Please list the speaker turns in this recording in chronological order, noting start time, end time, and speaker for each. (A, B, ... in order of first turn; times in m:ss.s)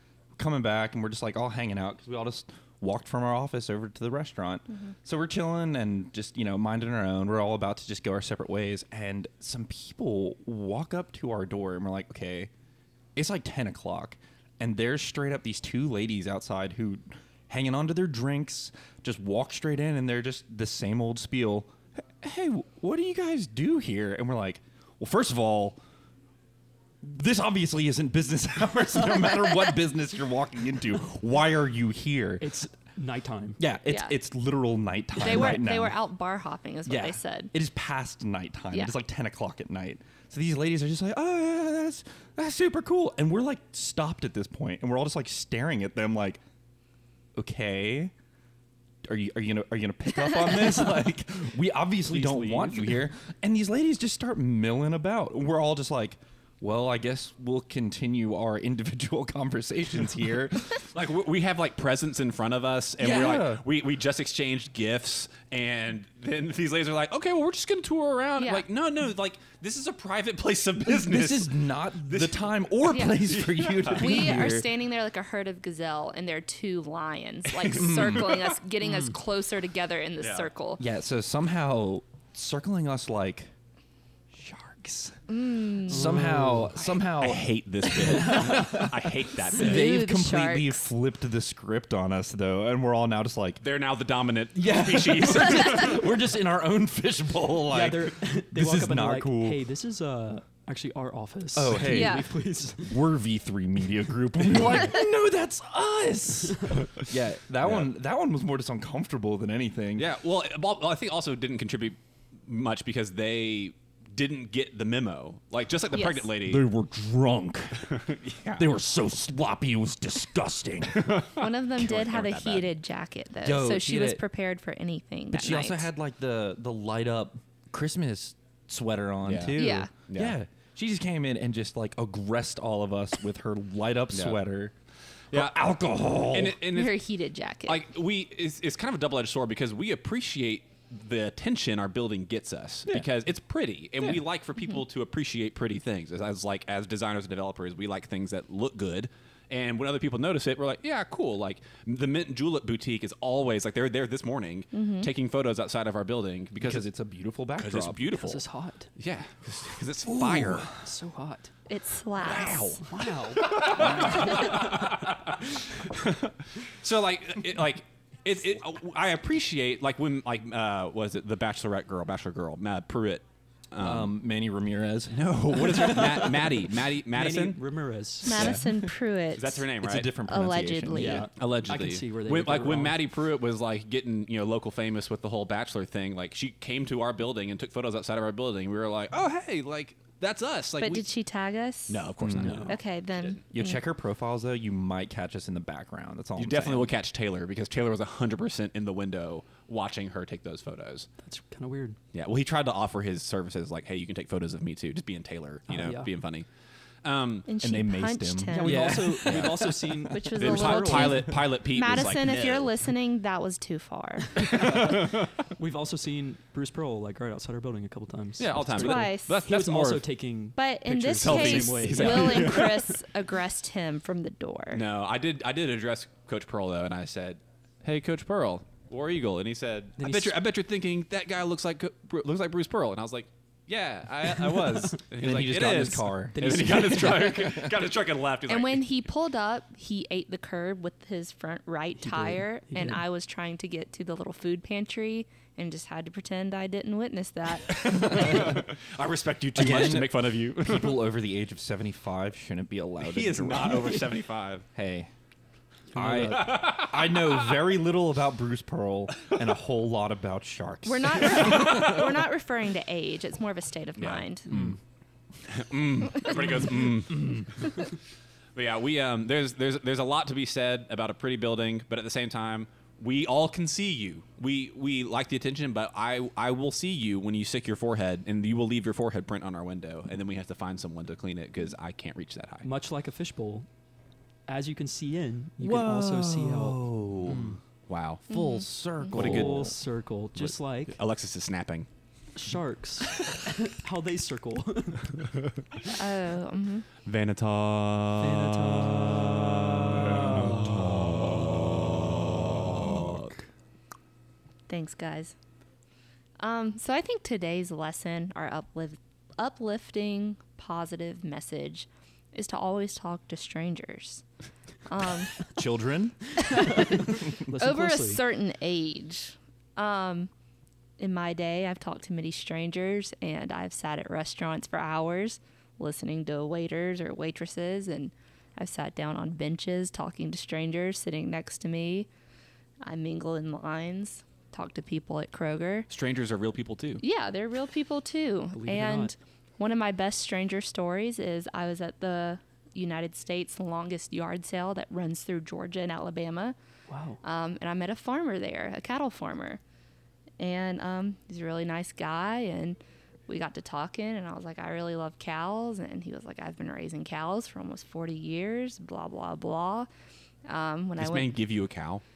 0:00.4-0:12.5 A
0:13.1-0:25.8 A
0:27.0-0:32.5 A
0:32.4-0:33.6 B
0:33.6-0:36.0 A
0:33.9-0:34.1 C
0:35.2-0:37.5 C
0:36.8-0:46.4 A
0:47.4-0:48.1 A
0:49.0-1:00.8 A
0:52.0-0:53.0 B
1:00.9-1:14.3 D
1:03.0-1:03.6 A
1:08.4-1:08.6 C
1:10.8-1:14.7 A
1:12.9-1:13.2 C
1:13.8-1:20.8 C
1:17.7-1:18.5 A
1:20.2-1:20.5 D
1:20.8-1:23.5 A
1:24.3-1:25.2 A
1:25.3-1:26.2 C
1:25.8-1:33.6 A
1:25.9-1:26.8 B
1:27.2-1:29.9 D
1:29.5-1:30.9 C
1:33.6-1:36.2 D
1:34.6-1:39.6 A
1:37.7-1:43.0 B
1:41.5-1:50.0 A
1:41.8-1:42.3 C
1:47.6-1:47.9 D
1:50.0-1:56.6 D
1:55.9-1:56.3 C
1:56.4-1:58.0 A
1:57.9-1:58.7 D
1:58.6-2:01.1 A
2:00.9-2:02.7 D
2:01.4-2:05.9 C
2:03.4-2:04.2 A
2:05.3-2:14.7 A
2:09.2-2:10.4 D
2:09.5-2:09.9 C
2:14.1-2:14.4 D
2:15.3-2:15.6 D
2:15.3-2:16.6 A
2:16.2-2:17.0 D
2:16.7-2:17.8 C
2:17.6-2:36.8 D
2:34.7-2:35.1 C
2:36.6-2:38.0 A
2:37.6-2:38.4 D
2:38.1-2:38.9 B
2:39.0-2:40.7 D
2:40.0-2:40.8 A
2:40.8-2:41.5 B
2:41.7-2:42.8 C
2:42.2-2:54.1 D
2:42.8-2:44.7 B
2:53.8-2:56.3 A
2:55.1-2:57.6 D
2:55.9-2:56.4 B
2:57.1-2:58.5 B
2:58.2-3:01.2 C
2:58.3-2:58.9 A
2:59.4-3:00.1 D
2:59.8-3:01.3 A
3:00.9-3:03.0 B
3:01.4-3:11.0 D
3:10.8-3:12.0 C
3:11.9-3:13.4 D
3:12.3-3:12.8 B
3:12.7-3:13.8 C
3:13.5-3:16.9 A
3:16.4-3:21.1 D
3:21.2-3:22.0 B
3:22.1-3:26.4 D
3:25.7-3:26.1 B
3:27.0-3:27.5 D
3:27.5-3:28.8 C
3:27.6-3:30.1 A
3:28.5-3:31.2 B
3:28.7-3:29.7 D
3:30.1-3:34.4 C
3:30.4-3:32.7 D
3:34.4-3:35.3 D
3:34.4-3:42.8 B
3:38.4-3:40.0 D
3:38.8-3:39.4 C
3:40.5-3:44.8 C
3:41.1-3:42.8 D
3:44.7-3:58.9 D
3:50.0-3:50.4 B
3:54.4-3:54.8 B
3:55.1-3:56.7 A
3:56.3-3:57.6 B
3:57.4-3:57.7 A
3:58.5-4:08.5 C
4:02.0-4:03.0 B
4:07.6-4:11.1 D
4:08.0-4:08.6 A
4:09.5-4:14.0 A
4:13.0-4:14.6 D
4:14.7-4:15.1 A
4:15.9-4:16.6 B
4:15.9-4:21.9 A
4:16.3-4:17.3 D
4:20.8-4:24.5 C
4:21.2-4:22.0 D
4:24.0-4:24.8 D
4:25.4-4:27.9 D
4:28.5-4:42.7 D
4:42.6-4:43.7 B
4:44.5-4:47.6 B
4:45.6-4:47.5 A
4:47.2-4:48.2 D
4:48.3-4:49.7 A
4:48.3-4:48.6 C
4:49.1-4:49.8 D
4:49.1-4:51.0 B
4:50.3-4:51.9 D
4:52.3-4:55.2 B
4:55.9-4:56.8 C
4:57.0-5:03.4 D
4:58.2-5:00.6 B
5:00.1-5:01.6 A
5:02.7-5:03.2 A
5:04.7-5:05.3 C
5:06.4-5:14.2 C
5:14.9-5:15.4 C
5:15.5-5:16.4 A
5:16.4-5:20.3 C
5:16.8-5:18.2 B
5:21.0-5:32.1 C
5:32.8-5:35.9 C
5:35.9-5:37.0 D
5:37.0-5:46.6 C
5:38.5-5:39.1 B
5:46.9-5:47.2 B
5:47.2-5:49.6 C
5:50.4-5:59.9 C
6:00.4-6:01.3 C
6:01.0-6:02.0 D